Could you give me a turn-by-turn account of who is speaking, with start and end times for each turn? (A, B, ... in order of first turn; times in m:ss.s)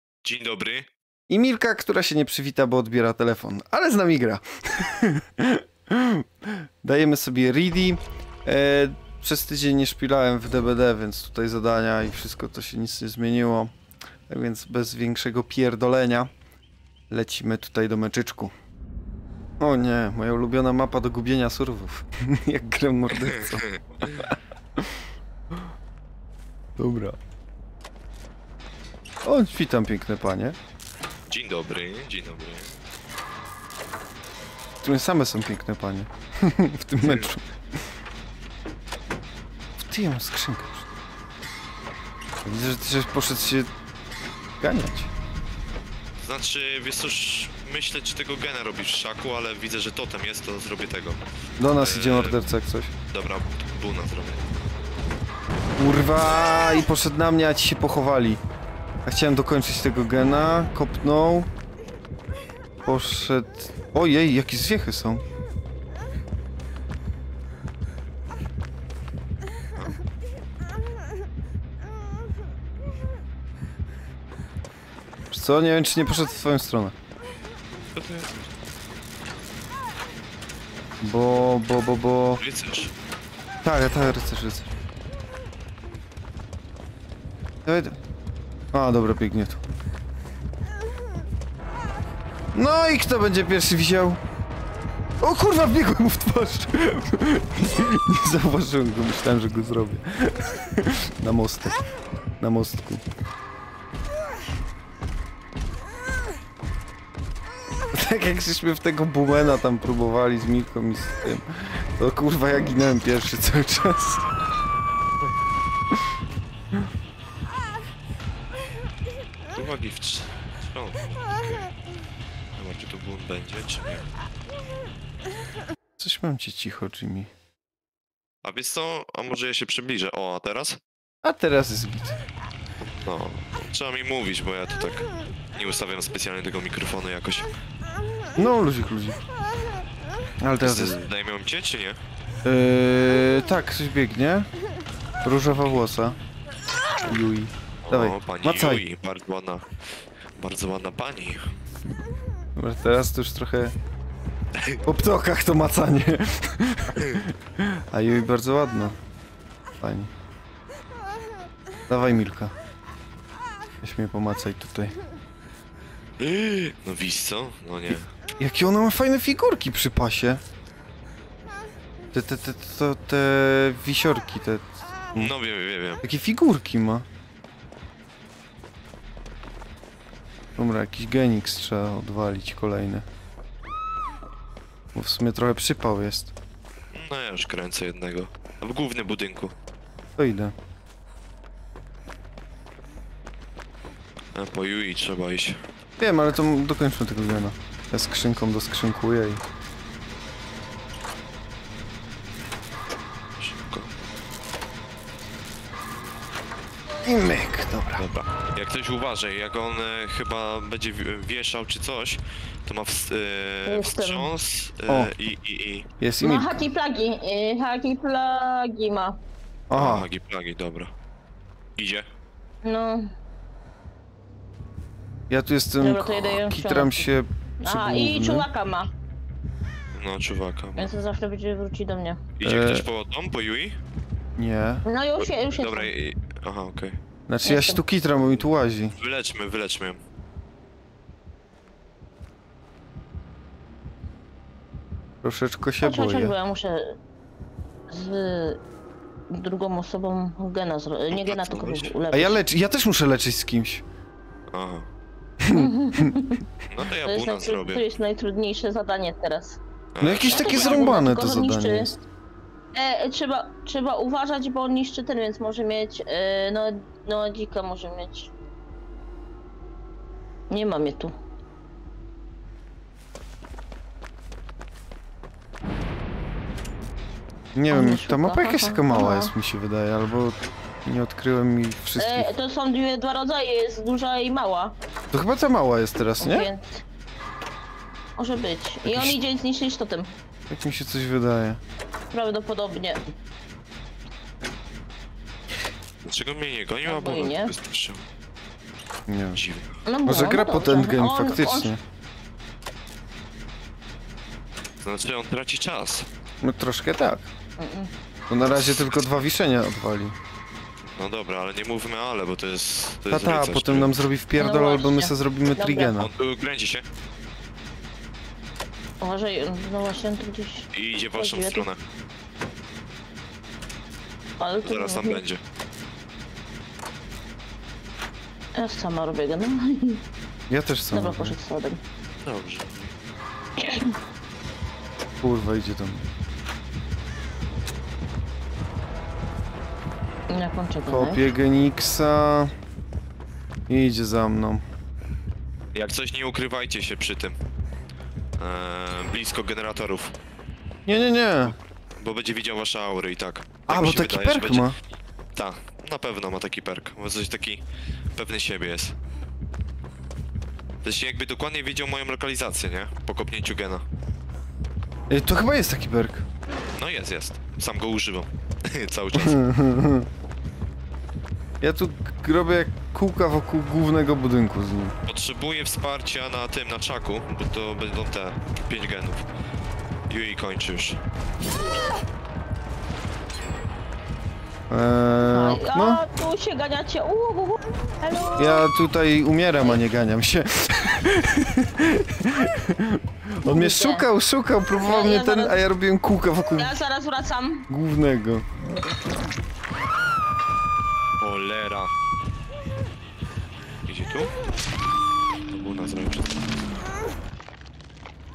0:00.2-0:00.9 A
0:01.3-0:13.7 B
0:14.3-0:16.3 B
0:17.1-0:18.5 B
0:19.6-0:25.1 B
0:23.1-0:24.2 A
0:26.8-0:27.2 B
0:29.2-0:30.6 B
0:31.3-0:32.8 A
0:34.8-0:37.5 B
0:37.0-0:37.3 A
0:39.8-0:40.9 B
0:42.4-0:43.7 B
0:44.6-0:45.1 B
0:46.2-0:51.2 A
0:51.6-0:52.9 B
0:51.8-0:52.4 A
0:53.1-0:54.4 A
0:55.8-0:58.4 B
0:59.1-1:01.5 B
1:02.8-1:05.2 B
1:15.3-1:17.0 B
1:18.0-1:18.4 A
1:21.0-1:22.4 B
1:22.4-1:22.9 A
1:23.6-1:24.7 B
1:27.6-1:28.0 B
1:28.7-1:29.6 B
1:32.5-1:34.2 B
1:35.2-1:41.8 B
1:42.4-1:43.0 B
1:47.9-1:54.3 B
1:59.5-2:01.7 A
2:02.6-2:04.1 A
2:06.0-2:07.3 B
2:08.4-2:10.8 A
2:11.2-2:12.2 B
2:12.8-2:17.5 A
2:18.4-2:19.2 B
2:20.4-2:21.0 B
2:20.6-2:22.0 A
2:22.4-2:24.5 B
2:25.2-2:26.2 B
2:27.1-2:28.8 B
2:27.9-2:29.8 A
2:30.4-2:31.5 A
2:32.6-2:33.8 B
2:34.5-2:34.8 A
2:34.8-2:39.0 B
2:39.8-2:40.1 B
2:41.9-2:42.5 B
2:43.8-2:44.9 B
2:46.2-2:48.1 A
2:48.4-2:50.4 B
2:52.1-2:55.3 B
2:55.2-2:56.0 A
2:56.0-2:57.1 B
3:00.6-3:03.0 B
3:05.0-3:06.3 B
3:06.9-3:09.5 A
3:10.2-3:10.5 B
3:14.3-3:15.6 A
3:16.0-3:19.4 B
3:23.4-3:23.9 A
3:27.0-3:28.0 B
3:27.9-3:35.9 A
3:33.7-3:34.3 C
3:36.0-3:36.6 B
3:36.2-3:39.2 C
3:39.7-3:40.1 B
3:39.7-3:40.9 A
3:41.8-3:42.1 A
3:42.6-3:43.1 C
3:45.3-3:48.5 B
3:45.8-3:47.1 C
3:47.6-3:48.9 C
3:49.9-3:50.9 A
3:50.8-3:52.2 C
3:52.4-3:53.8 A
3:52.4-3:52.9 B
3:54.4-3:54.9 B
3:54.9-3:55.9 C
3:55.2-3:57.0 A
3:57.3-3:59.0 B
3:57.4-3:57.8 C
3:59.0-4:00.0 A
4:05.2-4:06.3 B
4:05.8-4:07.0 C
4:07.9-4:08.6 C
4:09.3-4:12.4 C
4:11.1-4:11.9 A
4:12.1-4:13.8 B
4:14.5-4:14.9 A
4:15.4-4:16.1 B
4:15.5-4:16.4 C
4:16.7-4:17.8 A
4:17.0-4:19.6 C
4:20.0-4:21.0 A
4:20.0-4:22.0 B
4:20.3-4:21.9 C
4:22.7-4:28.3 C
4:30.5-4:31.1 C
4:37.6-4:42.3 B
4:37.7-4:39.3 C
4:42.0-4:44.7 C
4:45.1-4:46.5 B
4:46.2-4:46.8 C
4:48.2-4:50.1 C
4:48.8-4:49.2 B
4:50.5-4:51.6 B
4:52.1-4:53.1 C
4:56.0-4:58.0 A
4:56.9-4:57.5 C
4:59.1-4:59.4 B
4:59.3-4:59.8 A
4:59.9-5:01.7 C
5:00.0-5:01.8 B
5:04.8-5:06.1 A
5:06.4-5:07.3 B
5:07.6-5:07.9 C
5:08.3-5:10.2 B
5:10.8-5:14.0 A
5:13.1-5:16.1 B
5:14.4-5:16.0 C
5:16.0-5:16.9 A
5:19.0-5:21.6 C
5:20.7-5:21.8 A
5:24.4-5:25.2 C
5:24.6-5:25.4 A
5:28.6-5:30.0 C
5:30.5-5:31.4 B
5:30.9-5:31.8 C
5:32.2-5:32.9 A
5:33.6-5:34.0 C
5:35.2-5:36.1 B
5:40.3-5:41.2 C
5:40.9-5:42.5 B
5:43.7-5:44.6 B
5:45.7-5:47.4 A
5:48.4-5:50.2 A
5:50.9-5:51.6 B
5:52.0-5:54.7 A
5:53.7-5:54.8 B
5:55.4-5:57.6 A
5:58.2-5:59.0 A
6:00.8-6:03.8 A
6:05.1-6:06.3 B
6:06.8-6:09.4 A
6:09.2-6:10.1 B
6:11.6-6:15.0 B
6:15.1-6:19.3 A
6:20.1-6:21.0 A
6:24.7-6:26.0 B
6:25.3-6:28.6 C
6:28.4-6:36.7 B
6:33.4-6:34.1 C
6:34.8-6:35.6 C
6:36.6-6:37.7 C
6:37.7-6:38.5 B
6:41.2-6:41.9 A
6:43.9-6:44.3 A
6:45.4-6:46.4 A